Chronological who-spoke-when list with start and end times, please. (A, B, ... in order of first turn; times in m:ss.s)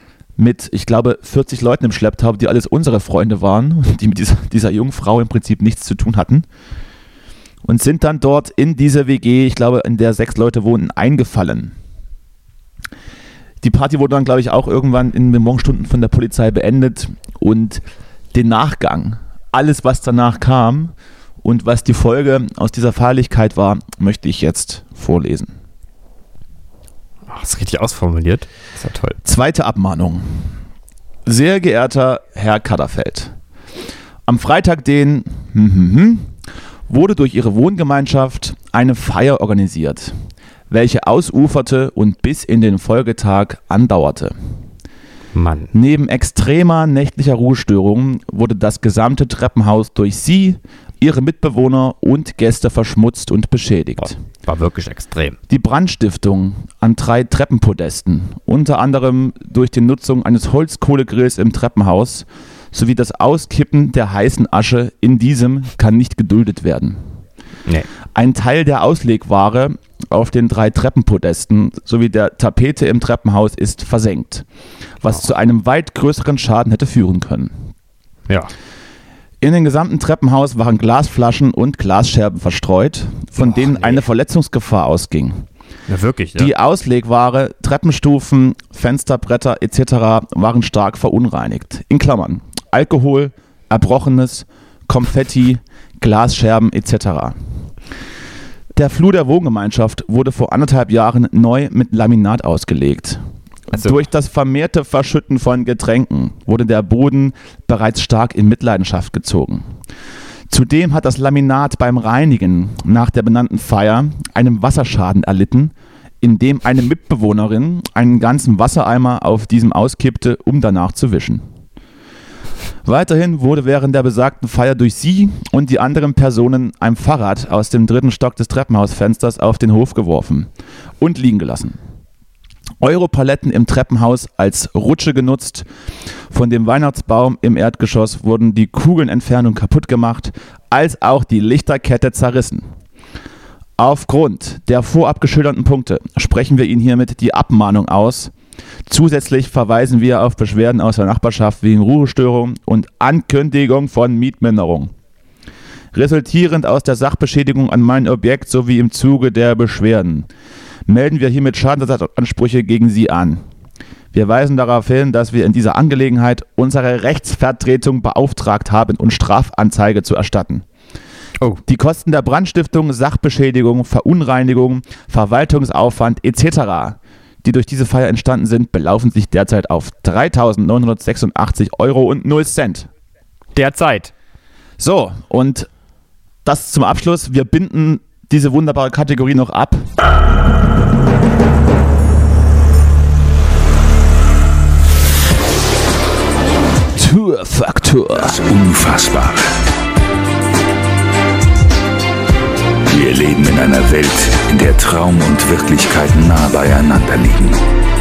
0:00.4-0:06.4 A
0:07.6-0:11.7 A
0:13.6-0:25.5 A
0:27.3-0:29.2 B
0:29.2-0:30.4 A
0:31.2-0:33.3 A
0:34.3-0:36.3 A
0:36.9-0:40.2 A
0:40.7-0:44.3 A
0:45.3-0:45.7 B
0:45.7-0:54.2 A
0:54.0-0:55.4 B
0:55.5-1:07.0 A
1:08.1-1:14.4 A
1:15.0-1:17.6 A
1:19.4-1:25.5 A
1:23.4-1:24.0 B
1:25.9-1:26.5 B
1:26.4-1:37.4 A
1:38.7-1:49.7 A
1:43.7-1:44.0 B
1:50.5-2:01.4 A
2:02.8-2:11.8 A
2:12.8-2:15.6 A
2:16.3-2:22.7 A
2:23.8-2:28.3 A
2:28.9-2:34.9 A
2:35.9-2:40.3 A
2:40.8-2:43.4 A
2:44.1-2:50.6 A
2:51.6-3:02.9 A
3:03.5-3:04.1 B
3:04.8-3:05.7 A
3:06.4-3:09.9 A
3:17.0-3:18.3 A
3:17.9-3:19.5 C
3:22.9-3:27.6 C